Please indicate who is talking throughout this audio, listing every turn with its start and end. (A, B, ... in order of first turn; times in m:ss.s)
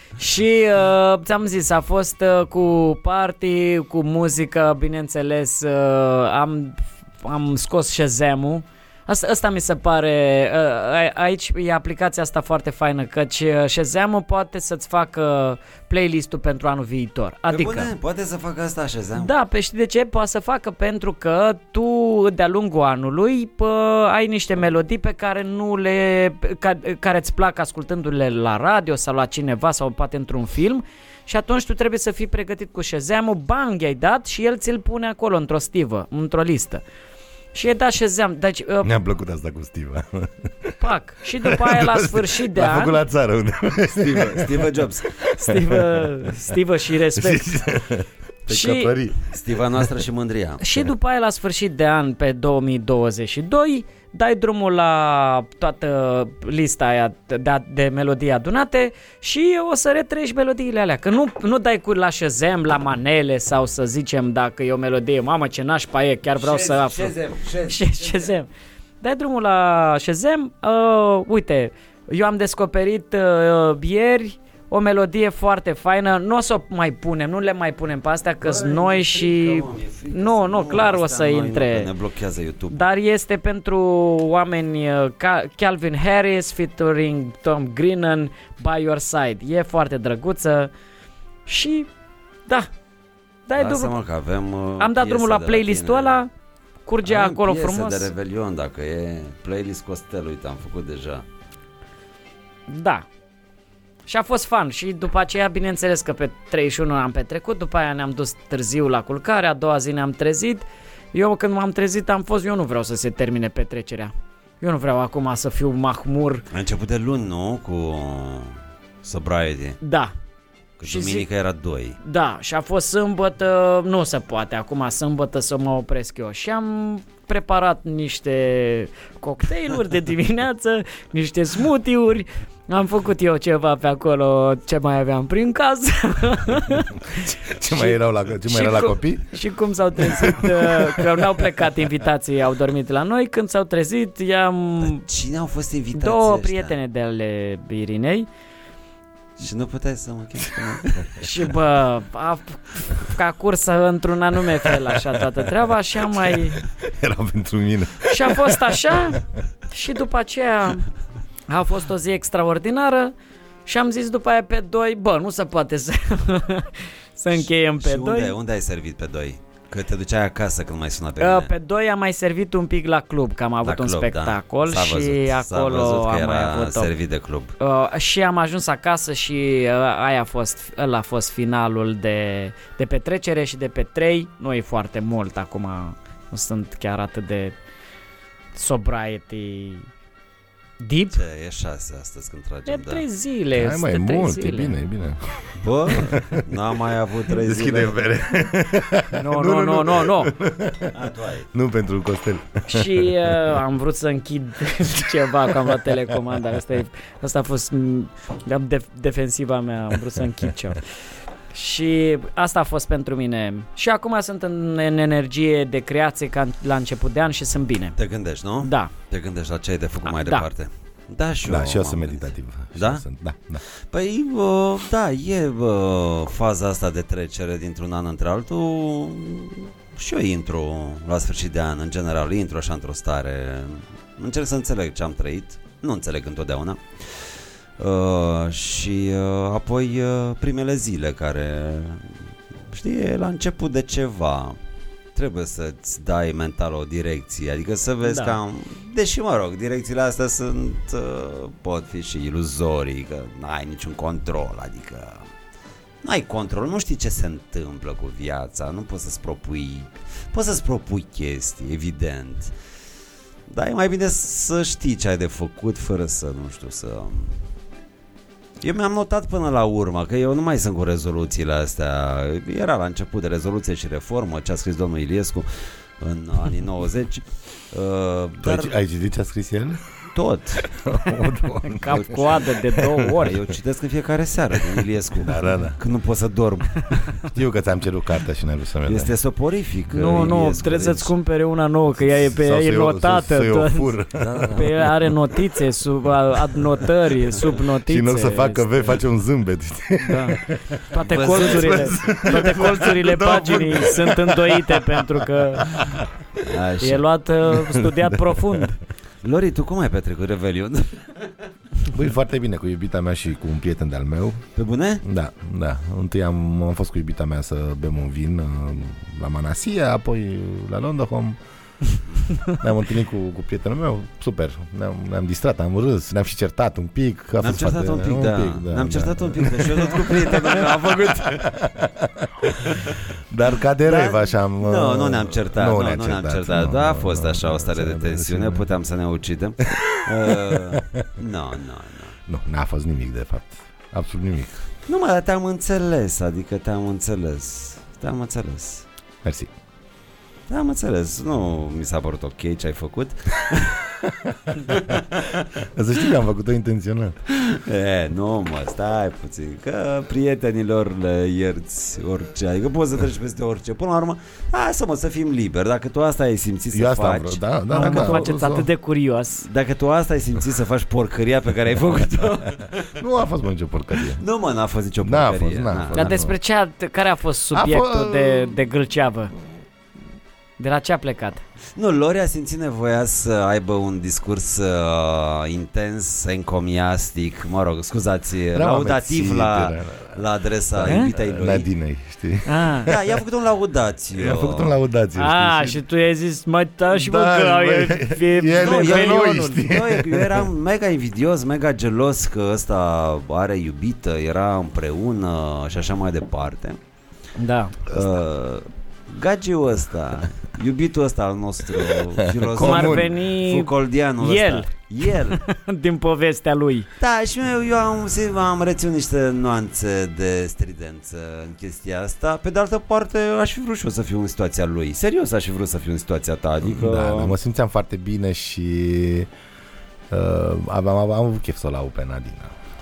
0:00.2-0:17.9 A
0:17.5-0:19.3 B
0:19.2-0:36.8 A
0:37.5-0:39.0 A
0:38.8-0:40.9 C
0:40.8-0:43.0 A
0:41.4-0:46.5 C
0:44.0-0:45.1 B
0:45.3-0:47.5 A
0:47.1-0:49.2 C
0:48.5-0:48.9 A
0:49.3-0:50.6 B
0:50.6-1:07.1 A
1:06.4-1:08.3 B
1:07.7-1:08.5 A
1:09.0-1:21.9 A
1:18.4-1:22.8 B
1:22.7-1:30.7 A
1:31.5-1:31.9 A
1:33.5-1:33.9 A
1:33.6-1:36.2 B
1:34.8-1:36.3 A
1:36.9-1:38.1 A
1:37.0-1:41.2 B
1:42.7-1:43.1 A
1:44.1-1:56.4 A
1:56.5-1:59.8 B
1:59.8-2:00.1 A
2:00.8-2:02.0 B
2:00.8-2:01.3 A
2:02.0-2:25.0 A
2:17.2-2:19.4 C
2:20.0-2:21.4 C
2:24.8-2:26.8 B
2:26.0-2:28.3 A
2:29.4-2:31.3 B
2:31.2-2:36.6 A
2:36.2-2:39.2 C
2:38.1-2:40.9 A
2:41.5-2:43.1 A
2:43.7-2:48.3 A
2:47.3-2:51.5 B
2:51.2-2:56.9 A
2:53.6-2:57.6 B
2:57.6-3:07.6 A
3:08.6-3:09.9 A
3:10.8-3:11.2 A
3:11.1-3:13.1 B
3:12.7-3:14.8 A
3:13.5-3:16.5 C
3:15.6-3:18.0 B
3:17.3-3:21.0 C
3:19.1-3:20.3 A
3:20.9-3:21.5 B
3:21.5-3:23.4 C
3:22.7-3:30.8 A
3:25.4-3:26.2 C
3:31.5-3:38.0 A
3:38.0-3:43.0 B
3:38.6-3:38.9 A
3:40.1-3:40.5 A
3:41.4-3:43.6 C
3:43.7-4:04.6 B
4:05.2-4:15.3 B
4:08.0-4:08.4 A
4:16.0-4:22.6 B
4:23.5-4:27.4 B
4:28.6-4:38.8 B
4:38.4-4:39.8 C
4:40.1-4:40.8 B
4:40.7-4:43.3 C
4:41.6-4:43.4 A
4:41.9-4:42.4 B
4:43.2-4:47.2 B
4:44.6-4:45.8 C
4:47.3-4:49.1 C
4:48.9-4:51.1 B
4:49.9-4:53.9 A
4:52.0-4:54.9 C
4:54.2-4:54.7 B
4:54.5-4:59.0 A
4:57.9-5:06.4 C
5:00.0-5:05.9 A
5:01.0-5:02.1 B
5:06.4-5:07.0 B
5:06.8-5:08.8 A
5:07.5-5:08.6 C
5:09.2-5:11.3 B
5:11.9-5:14.4 C
5:14.6-5:15.0 B
5:15.0-5:21.4 C
5:22.5-5:38.7 C
5:27.4-5:31.5 B
5:32.6-5:33.0 B
5:33.8-5:42.2 B
5:39.7-5:41.1 C
5:42.3-5:44.6 C
5:44.9-5:48.9 B
5:49.2-5:49.5 C
5:50.5-5:53.9 B
5:54.0-5:55.0 C
5:54.6-5:55.5 B
5:55.6-5:57.2 C
5:57.3-6:08.3 B
6:06.7-6:08.7 C
6:07.7-6:09.5 A
6:09.4-6:13.0 B
6:13.0-6:14.2 C
6:14.0-6:16.2 B
6:15.0-6:16.4 C
6:15.9-6:19.3 A
6:17.5-6:18.6 C
6:20.6-6:21.4 A
6:21.8-6:31.7 B
6:28.5-6:30.2 C
6:30.8-6:33.2 C
6:30.9-6:31.1 A
6:32.5-6:32.9 A
6:32.9-6:34.8 B
6:34.1-6:35.8 C
6:35.2-6:39.6 A
6:36.9-6:40.5 C
6:38.6-6:46.8 B
6:47.4-6:47.7 A
6:47.9-6:55.4 B
6:52.2-6:53.1 C
6:52.6-6:56.9 A
6:57.0-7:07.4 B
7:06.6-7:09.3 C
7:10.1-7:12.5 C